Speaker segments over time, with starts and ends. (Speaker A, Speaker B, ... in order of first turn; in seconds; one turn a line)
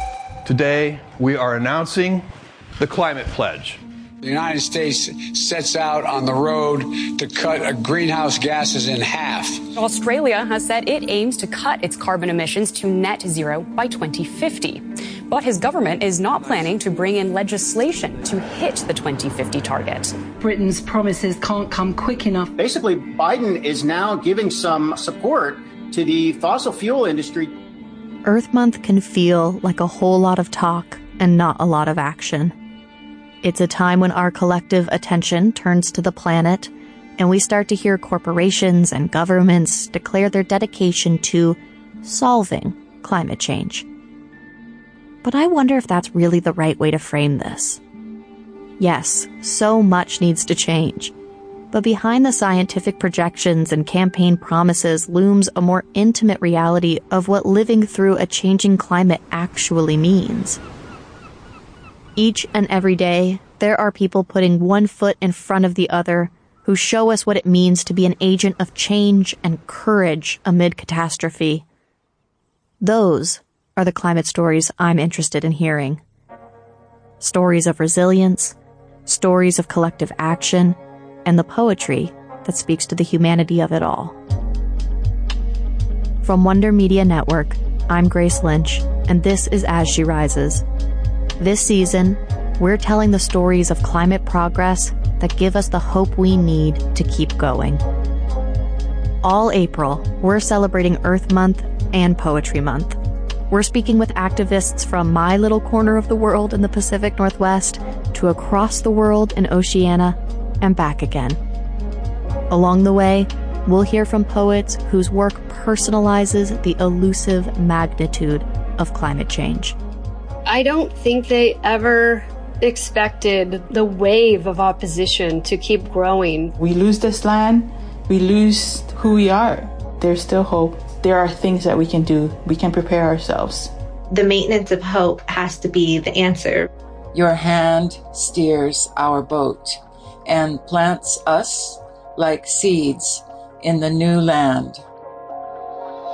Speaker A: 0.4-2.2
Speaker A: 2.8-3.8
Speaker B: 4.2-9.6
Speaker C: 9.7-20.1
Speaker D: 20.4-22.5
Speaker E: 22.5-27.5
Speaker F: 28.2-32.5
Speaker F: 33.4-43.8
Speaker F: 45.2-47.8
Speaker F: 48.8-51.1
Speaker F: 51.7-60.6
Speaker F: 62.2-71.6
Speaker F: 72.8-76.0
Speaker F: 77.2-78.5
Speaker F: 79.0-84.2
Speaker F: 86.2-90.6
Speaker F: 91.4-97.8
Speaker F: 99.2-103.0
Speaker F: 103.5-111.4
Speaker F: 112.5-119.7
Speaker G: 120.5-126.5
Speaker H: 126.6-133.7
Speaker I: 134.1-136.7
Speaker J: 137.1-144.8